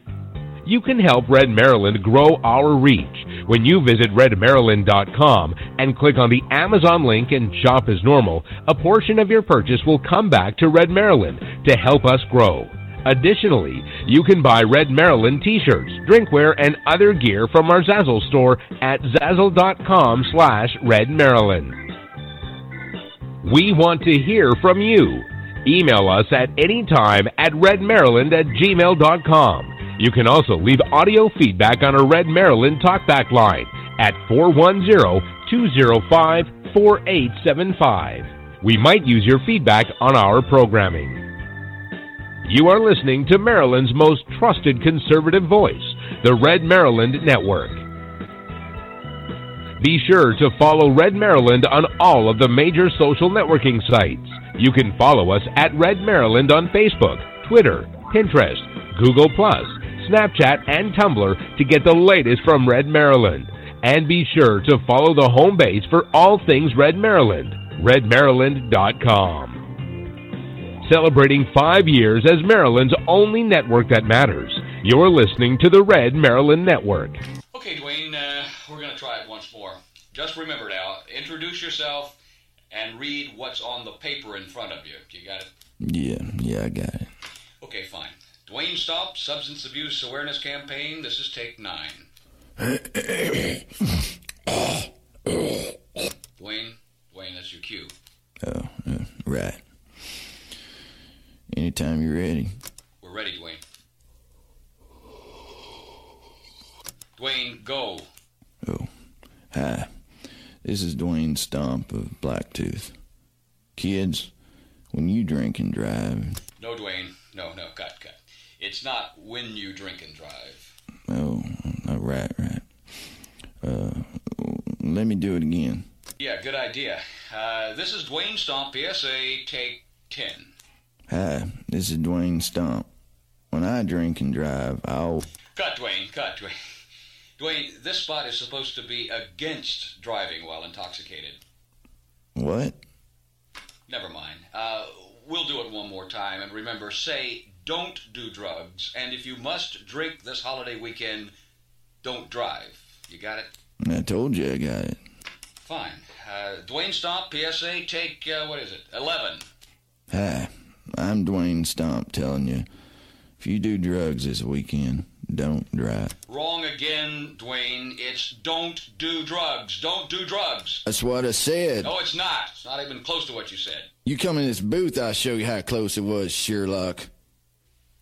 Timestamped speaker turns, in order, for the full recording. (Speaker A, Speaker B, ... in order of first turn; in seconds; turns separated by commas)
Speaker A: 0.7-21.9, Speaker A: 23.4-41.3, Speaker A: 42.5-47.9, Speaker A: 49.8-69.7, Speaker A: 70.8-77.2, Speaker B: 77.5-82.2, Speaker B: 82.7-85.5, Speaker C: 85.8-87.1, Speaker B: 87.6-92.1, Speaker B: 96.4-97.9, Speaker C: 98.4-99.6, Speaker C: 101.5-102.6, Speaker B: 103.0-103.6, Speaker B: 107.2-108.1, Speaker C: 108.7-108.9, Speaker C: 109.5-109.9, Speaker C: 110.6-113.0, Speaker C: 113.8-114.3, Speaker C: 114.9-116.4, Speaker B: 116.6-120.8, Speaker C: 121.1-122.7, Speaker C: 123.6-125.9, Speaker B: 126.2-130.5, Speaker C: 131.1-132.9, Speaker C: 133.5-135.3, Speaker B: 135.5-136.6, Speaker B: 137.4-141.4, Speaker C: 142.4-142.8, Speaker B: 143.9-151.3, Speaker B: 152.0-153.5, Speaker C: 153.8-155.0, Speaker B: 155.6-159.5, Speaker C: 160.1-162.7, Speaker C: 163.4-166.2, Speaker B: 166.3-170.8, Speaker C: 170.8-171.9, Speaker B: 171.8-173.9, Speaker C: 174.1-177.1